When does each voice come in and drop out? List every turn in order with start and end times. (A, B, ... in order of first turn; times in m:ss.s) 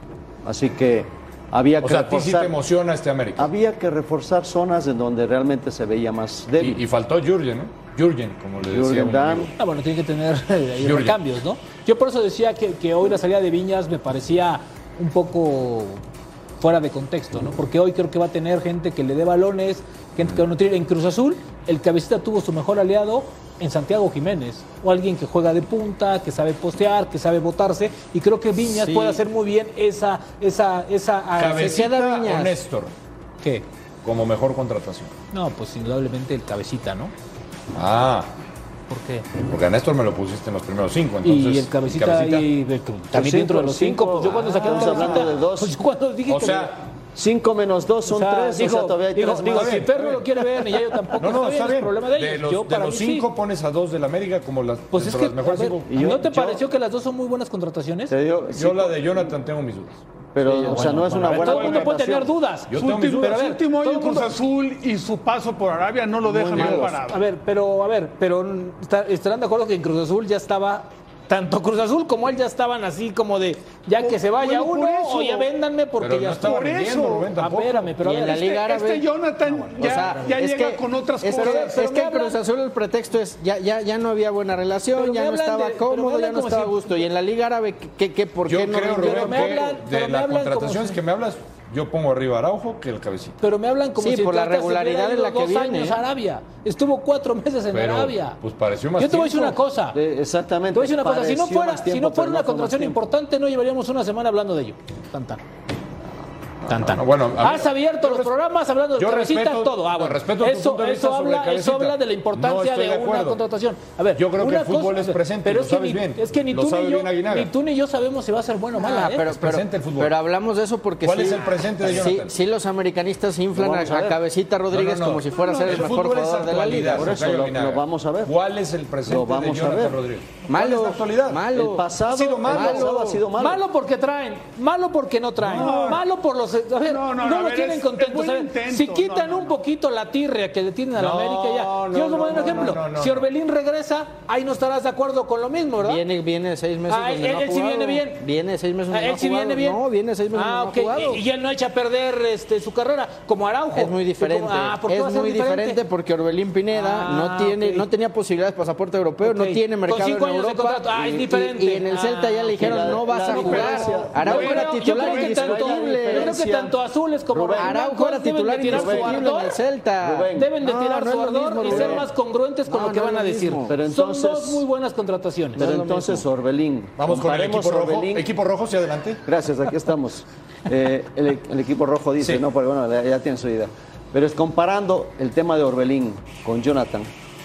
0:00.4-0:02.6 A
0:01.8-0:03.5 B
0:03.4-0:06.8 A
0:06.6-0:09.5 B
0:08.7-0:09.5 A
0:09.6-0:16.0 C
0:10.8-0:11.2 B
0:16.6-0:31.9 C
0:28.7-0:29.2 D
0:31.4-0:32.9 B
0:31.6-0:32.6 D
0:34.0-0:35.1 B
0:35.3-0:37.1 C
0:37.7-0:38.3 B
0:38.9-0:39.3 C
0:39.5-0:42.5 B
0:41.2-0:46.7 C
0:43.1-0:45.8 A
0:44.6-0:45.2 B
0:46.3-0:46.8 B
0:47.2-0:49.9 A
0:48.1-0:53.3 C
0:49.5-0:50.3 B
0:51.2-0:56.2 B
0:54.9-0:58.1 C
0:55.9-0:56.6 A
0:58.1-0:59.3 A
0:58.5-1:00.0 B
1:00.4-1:02.3 A
1:00.5-1:04.3 C
1:00.8-1:01.7 B
1:02.7-1:03.5 B
1:02.8-1:07.2 E
1:06.4-1:06.9 B
1:06.6-1:16.6 C
1:14.0-1:15.5 E
1:16.0-1:18.0 B
1:16.4-1:17.3 E
1:17.4-1:18.5 C
1:18.0-1:19.1 D
1:18.2-1:22.1 E
1:19.5-1:20.3 C
1:19.8-1:29.6 D
1:21.3-1:22.4 C
1:25.0-1:27.0 C
1:28.5-1:33.4 B
1:29.0-1:31.0 C
1:33.4-1:38.4 C
1:34.0-1:36.0 D
1:37.7-1:39.6 B
1:39.0-1:40.0 C
1:39.9-1:43.0 A
1:40.7-1:45.4 C
1:46.7-1:48.4 B
1:46.7-1:59.3 C
1:49.0-1:53.4 B
1:54.2-1:57.5 B
1:58.8-2:07.2 D
1:59.3-2:00.2 B
2:01.0-2:02.3 B
2:03.5-2:04.2 A
2:04.7-2:11.5 B
2:06.9-2:08.3 A
2:09.1-2:10.0 A
2:10.5-2:11.9 D
2:11.5-2:13.6 A
2:12.1-2:13.0 B
2:12.5-2:13.2 D
2:13.4-2:26.0 C
2:15.4-2:16.0 E
2:16.8-2:19.6 E
2:21.0-2:23.3 B
2:25.8-2:31.2 D
2:26.9-2:28.2 C
2:28.9-2:29.8 C
2:30.3-2:35.8 C
2:33.7-2:46.4 D
2:36.7-2:37.9 C
2:39.2-2:49.6 C
2:42.6-2:46.8 A
2:43.8-2:45.2 E
2:47.3-2:47.8 A
2:47.6-2:52.1 D
2:48.7-2:49.4 A
2:50.0-2:50.6 A
2:50.3-2:55.6 C
2:51.7-2:52.0 A
2:52.7-2:53.7 D
2:53.7-2:54.6 A
2:55.6-2:56.2 D
2:55.6-2:58.3 A
2:57.0-2:59.2 B
2:59.3-3:07.1 A